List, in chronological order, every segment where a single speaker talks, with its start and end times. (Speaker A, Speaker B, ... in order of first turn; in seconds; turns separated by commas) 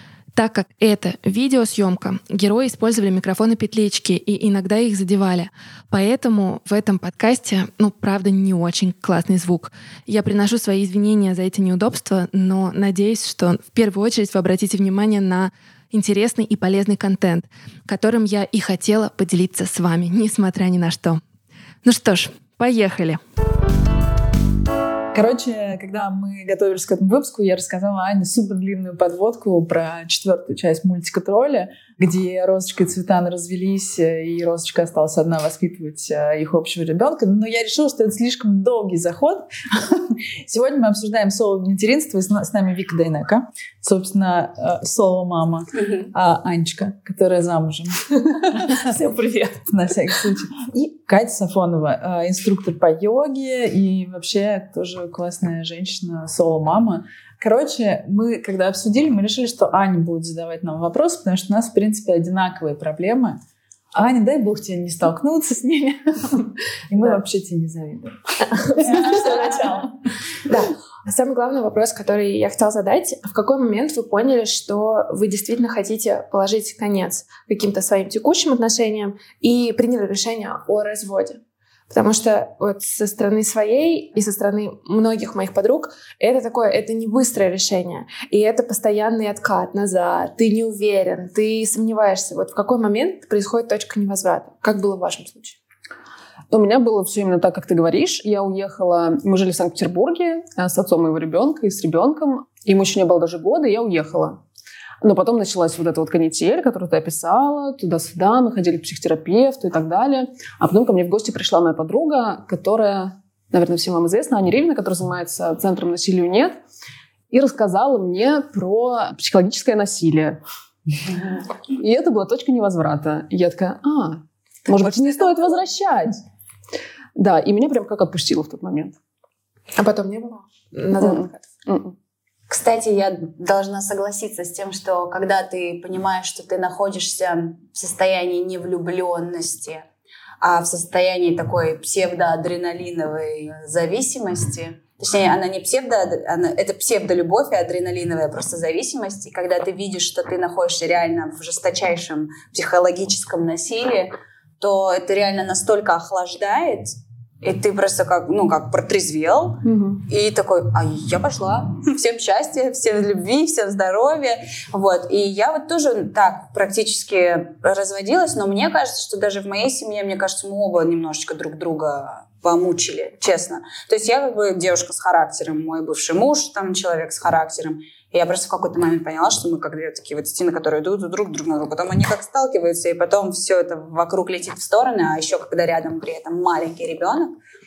Speaker A: 0.3-21.2, Speaker A: 21.8-23.2, Speaker B: 25.1-63.4, Speaker B: 63.9-69.9, Speaker C: 68.5-69.8, Speaker C: 70.5-95.6, Speaker D: 96.5-104.4, Speaker D: 105.0-116.6, Speaker D: 117.3-120.4, Speaker D: 121.7-126.2, Speaker E: 124.7-125.6, Speaker D: 127.2-129.0, Speaker C: 129.8-131.5, Speaker D: 131.0-131.9, Speaker E: 132.5-139.8, Speaker E: 140.4-187.3, Speaker D: 159.6-160.1